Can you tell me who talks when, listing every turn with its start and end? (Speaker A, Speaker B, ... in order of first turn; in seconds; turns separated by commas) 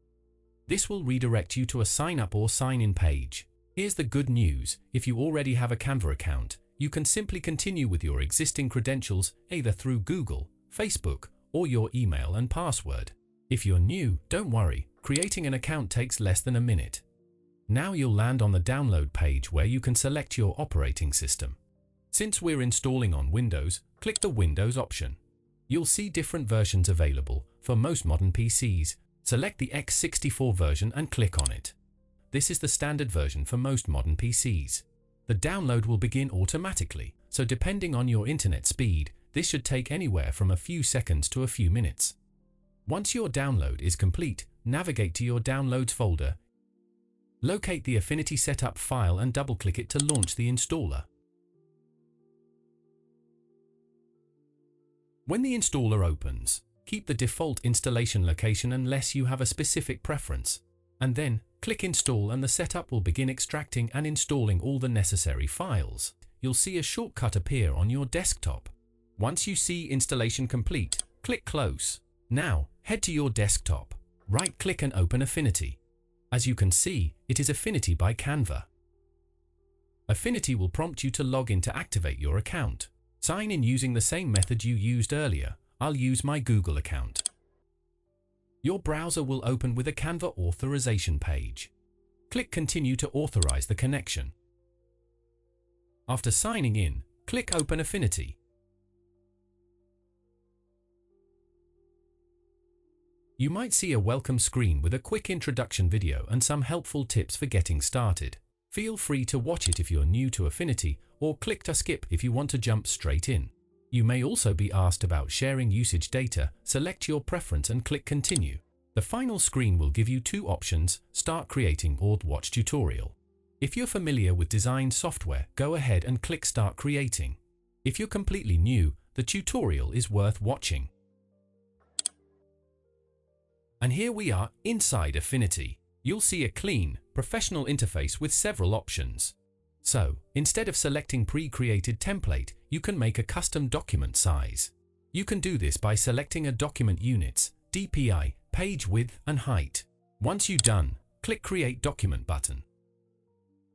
Speaker A: 0.7-17.0, Speaker A: 17.7-21.6, Speaker A: 22.1-25.2, Speaker A: 25.7-31.8, Speaker A: 32.3-42.2, Speaker A: 42.9-46.4, Speaker A: 47.4-51.1, Speaker A: 55.2-75.8, Speaker A: 76.3-78.7, Speaker A: 80.1-87.2, Speaker A: 88.6-91.7, Speaker A: 92.3-94.3, Speaker A: 96.1-98.4, Speaker A: 103.4-130.9, Speaker A: 133.8-152.6